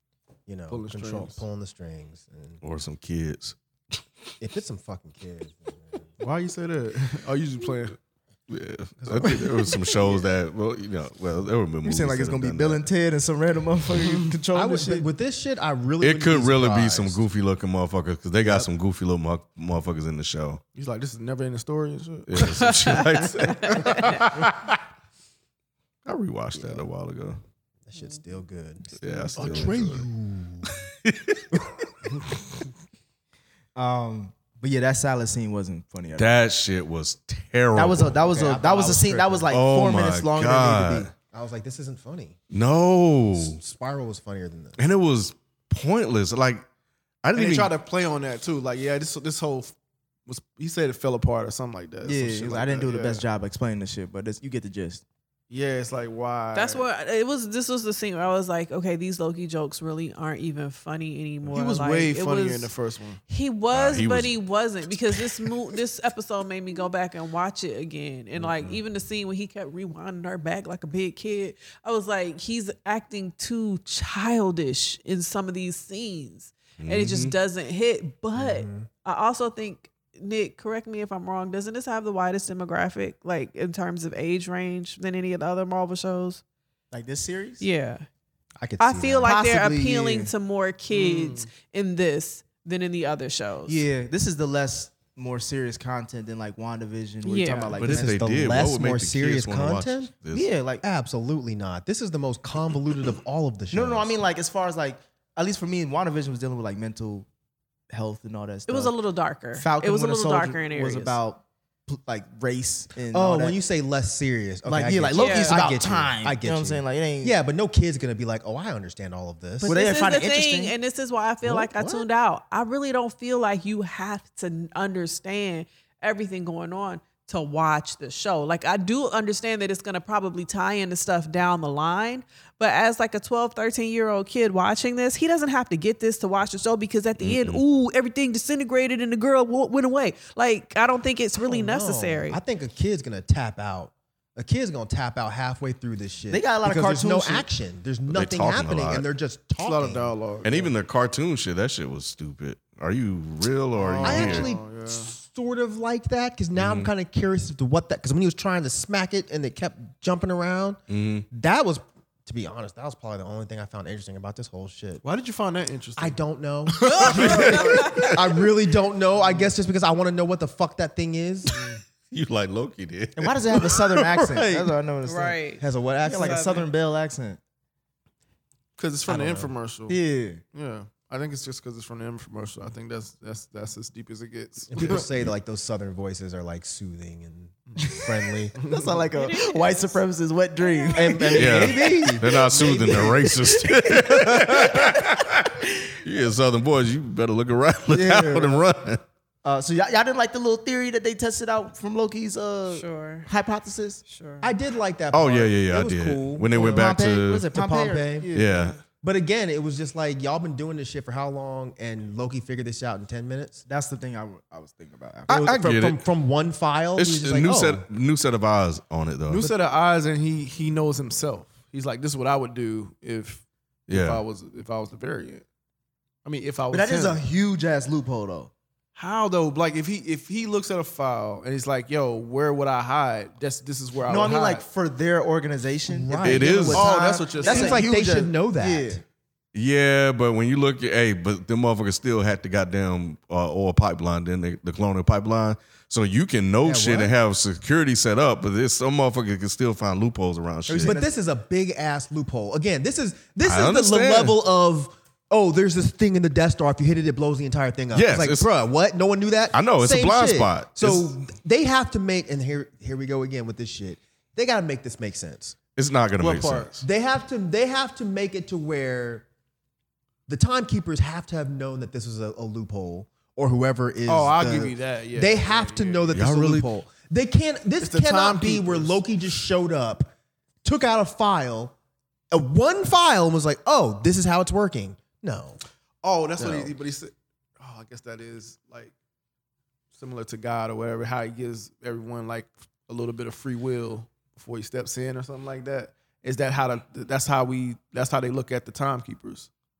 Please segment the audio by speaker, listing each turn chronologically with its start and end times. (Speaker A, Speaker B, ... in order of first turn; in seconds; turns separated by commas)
Speaker A: 0.5-2.6, Speaker B: 0.7-1.4, Speaker C: 2.6-3.6, Speaker A: 4.4-6.1, Speaker B: 6.2-8.0, Speaker C: 8.5-12.9, Speaker A: 9.0-9.5, Speaker D: 11.8-15.1, Speaker A: 14.5-17.2, Speaker C: 16.0-20.6, Speaker B: 20.8-23.0, Speaker C: 22.3-24.8, Speaker E: 22.4-24.3, Speaker C: 26.1-27.4, Speaker A: 26.6-26.8, Speaker A: 27.9-30.7, Speaker C: 29.0-30.1, Speaker B: 29.4-29.8, Speaker C: 30.7-31.4, Speaker D: 33.8-36.3, Speaker C: 36.2-38.2, Speaker D: 37.8-41.1, Speaker A: 38.2-39.5, Speaker C: 39.5-41.1, Speaker A: 41.3-42.4, Speaker C: 42.5-43.6, Speaker A: 43.4-44.8, Speaker C: 44.8-46.6, Speaker C: 47.2-47.7, Speaker B: 47.4-49.8, Speaker B: 50.3-53.2, Speaker D: 52.0-55.0, Speaker B: 55.5-56.9, Speaker E: 56.5-62.7, Speaker B: 61.5-63.2, Speaker E: 63.3-86.4, Speaker C: 63.7-64.3, Speaker C: 76.8-77.3, Speaker A: 78.3-78.9, Speaker D: 86.9-87.7, Speaker E: 87.6-88.1, Speaker A: 88.6-89.3, Speaker E: 88.8-93.9, Speaker D: 89.2-90.3, Speaker B: 90.9-91.5, Speaker D: 93.7-98.2, Speaker E: 97.2-97.8, Speaker C: 97.8-100.5, Speaker A: 97.8-100.1, Speaker D: 100.3-100.8, Speaker A: 100.8-104.2, Speaker D: 103.7-107.3, Speaker D: 107.9-109.0, Speaker E: 108.7-111.2, Speaker D: 109.5-113.6, Speaker A: 113.1-119.8, Speaker D: 114.7-117.4, Speaker E: 115.2-115.7, Speaker E: 119.6-142.4, Speaker D: 119.7-120.8, Speaker A: 121.4-122.1, Speaker C: 137.2-137.6, Speaker A: 141.4-150.1, Speaker D: 146.3-147.5, Speaker C: 148.1-149.1, Speaker B: 149.6-150.7, Speaker C: 150.4-154.5, Speaker B: 153.8-155.1, Speaker A: 154.0-160.8, Speaker C: 156.6-156.9, Speaker C: 160.9-161.3, Speaker A: 161.3-165.0, Speaker B: 165.0-168.1, Speaker A: 166.0-171.5, Speaker E: 166.8-168.2, Speaker B: 169.1-169.5, Speaker C: 172.1-173.6, Speaker D: 173.2-175.4, Speaker A: 173.5-174.8, Speaker E: 175.1-175.6, Speaker A: 175.6-176.5, Speaker D: 176.0-177.4, Speaker E: 176.2-176.7, Speaker B: 178.8-180.0, Speaker A: 179.1-179.5, Speaker D: 179.9-180.4, Speaker B: 180.5-185.1, Speaker A: 184.7-188.5, Speaker D: 187.8-195.9, Speaker B: 188.6-189.0, Speaker E: 189.1-190.0, Speaker E: 190.6-191.2, Speaker A: 190.9-193.2, Speaker C: 191.3-195.5, Speaker C: 196.0-199.0, Speaker D: 197.9-198.6, Speaker D: 199.4-204.0, Speaker E: 202.7-203.3, Speaker E: 204.1-204.5, Speaker A: 204.4-208.3, Speaker C: 205.1-207.5, Speaker D: 206.5-208.6, Speaker C: 208.3-208.8, Speaker A: 209.0-213.6, Speaker D: 213.7-215.6, Speaker A: 215.3-217.8, Speaker C: 215.4-216.0, Speaker C: 217.0-219.4, Speaker B: 219.3-225.4, Speaker C: 223.9-224.2, Speaker B: 226.2-227.2, Speaker D: 226.7-228.5, Speaker B: 229.0-234.6, Speaker D: 234.1-239.0, Speaker A: 235.9-239.0, Speaker C: 236.2-236.9, Speaker B: 236.7-237.9, Speaker C: 239.5-251.0, Speaker A: 246.6-247.1, Speaker D: 250.7-251.1, Speaker A: 250.8-265.6, Speaker C: 253.4-254.4, Speaker C: 257.9-258.5, Speaker C: 259.5-261.1, Speaker C: 265.8-266.8, Speaker D: 266.2-266.7, Speaker A: 266.8-269.2, Speaker A: 270.3-280.1, Speaker B: 274.1-276.3, Speaker C: 276.1-276.7, Speaker B: 277.8-279.0, Speaker A: 280.6-281.7, Speaker A: 282.3-285.6, Speaker B: 286.0-288.9, Speaker A: 286.4-286.7, Speaker B: 289.9-299.5